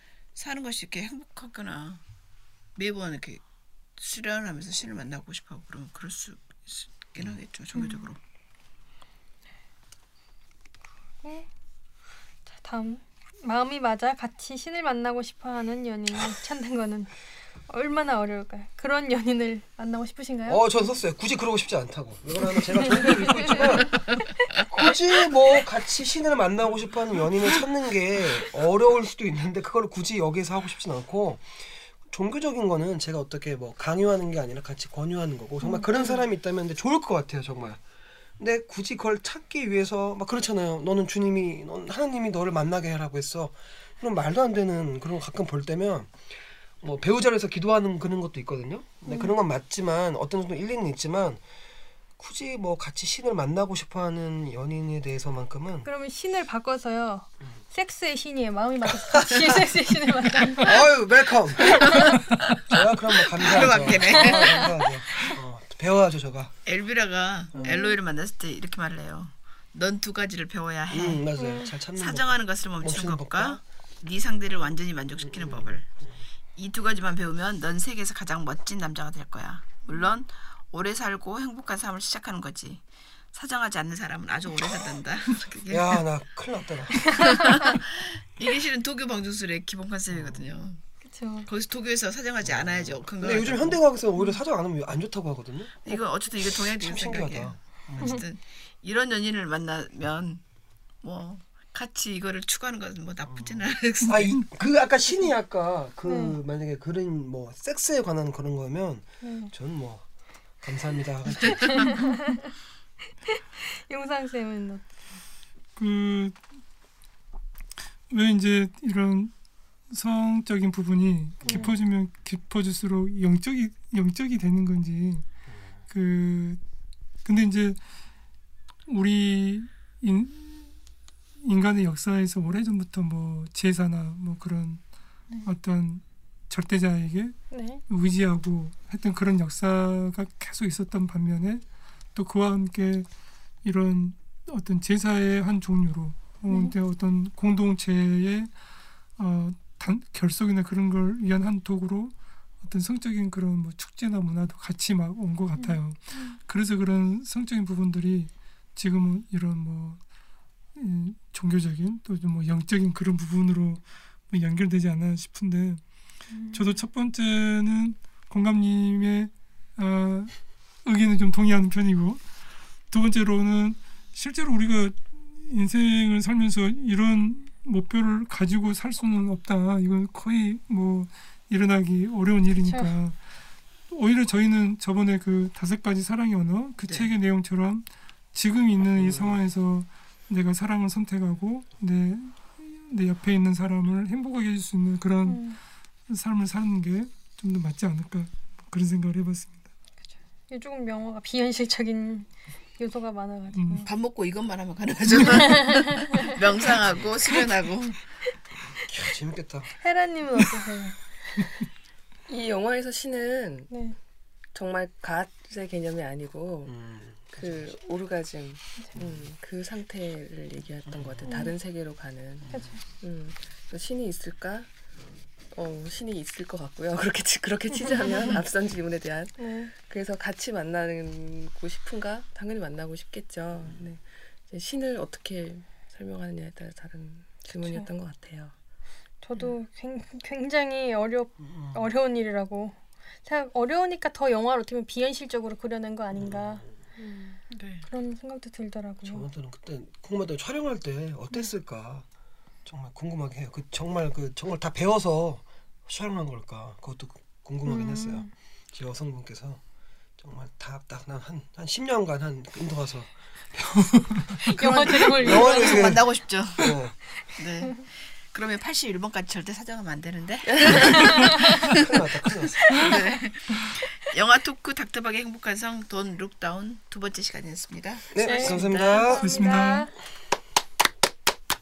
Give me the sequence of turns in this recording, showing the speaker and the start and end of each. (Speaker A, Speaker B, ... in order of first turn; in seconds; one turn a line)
Speaker A: 0.3-2.0
Speaker A: 2.8-3.4
Speaker A: 4.0-8.2
Speaker B: 7.7-8.0
Speaker B: 11.2-11.5
Speaker B: 12.6-17.1
Speaker B: 17.6-20.6
Speaker C: 20.5-24.0
Speaker B: 22.8-23.9
Speaker C: 24.7-37.8
Speaker B: 35.6-36.2
Speaker C: 38.4-46.2
Speaker C: 46.8-51.4
Speaker B: 49.1-49.3
Speaker C: 52.2-55.9
Speaker B: 55.8-60.7
Speaker C: 59.0-59.7
Speaker C: 60.5-66.5
Speaker A: 61.7-62.6
Speaker A: 63.3-64.6
Speaker B: 64.1-65.3
Speaker A: 66.7-71.2
Speaker B: 67.5-67.9
Speaker C: 70.9-73.6
Speaker B: 71.4-71.7
Speaker A: 71.9-75.9
Speaker C: 75.2-76.2
Speaker A: 76.5-86.0
Speaker C: 85.7-87.5
Speaker A: 87.1-90.8
Speaker C: 90.1-90.5
Speaker B: 91.0-91.5
Speaker A: 91.5-93.8
Speaker C: 92.4-98.2
Speaker A: 95.8-100.4
Speaker A: 101.0-104.4
Speaker C: 103.3-110.0
Speaker B: 106.0-106.4
Speaker B: 109.2-109.5
Speaker C: 110.6-111.9
Speaker A: 111.4-111.8
Speaker B: 111.8-112.4
Speaker B: 113.3-114.9
Speaker D: 115.8-116.4
Speaker D: 118.1-119.3
Speaker D: 119.9-125.2
Speaker B: 121.4-121.7
Speaker D: 125.9-126.6
Speaker D: 127.2-127.8
Speaker D: 128.8-130.7
Speaker D: 131.4-134.8
Speaker D: 135.4-143.1
Speaker B: 137.5-137.8
Speaker D: 143.6-148.6
Speaker B: 146.5-146.8
Speaker D: 149.2-160.0
Speaker B: 155.6-156.4
Speaker D: 160.7-165.8
Speaker B: 166.3-166.8
Speaker D: 166.5-172.2
Speaker D: 172.9-183.2
Speaker B: 182.6-183.0
Speaker D: 183.9-199.6
Speaker A: 186.9-187.1
Speaker C: 188.9-189.4
Speaker B: 195.2-195.6
Speaker B: 200.5-203.9
Speaker D: 203.5-203.9
Speaker A: 203.8-208.0
Speaker B: 205.3-205.8
Speaker C: 208.8-209.7
Speaker B: 209.8-211.1
Speaker E: 212.3-213.7
Speaker B: 213.7-213.9
Speaker E: 214.5-216.8
Speaker C: 216.7-217.8
Speaker E: 217.3-224.7
Speaker C: 218.9-219.3
Speaker C: 220.9-221.4
Speaker B: 221.2-221.5
Speaker C: 222.4-222.7
Speaker B: 222.5-222.8
Speaker E: 225.5-238.5
Speaker B: 227.8-228.3
Speaker B: 229.4-229.7
Speaker B: 239.2-246.6
Speaker C: 241.4-241.9
Speaker C: 246.1-246.7
Speaker E: 247.0-247.4
Speaker A: 247.5-247.8
Speaker B: 247.9-249.2
Speaker C: 249.0-252.0
Speaker C: 252.6-259.6
Speaker B: 257.6-258.3
Speaker C: 260.2-266.9
Speaker B: 264.4-265.9
Speaker A: 264.6-271.8
Speaker E: 270.6-270.9
Speaker C: 271.7-273.0
Speaker A: 272.6-279.1
Speaker C: 278.1-279.2
Speaker B: 278.2-279.9
Speaker D: 279.2-279.9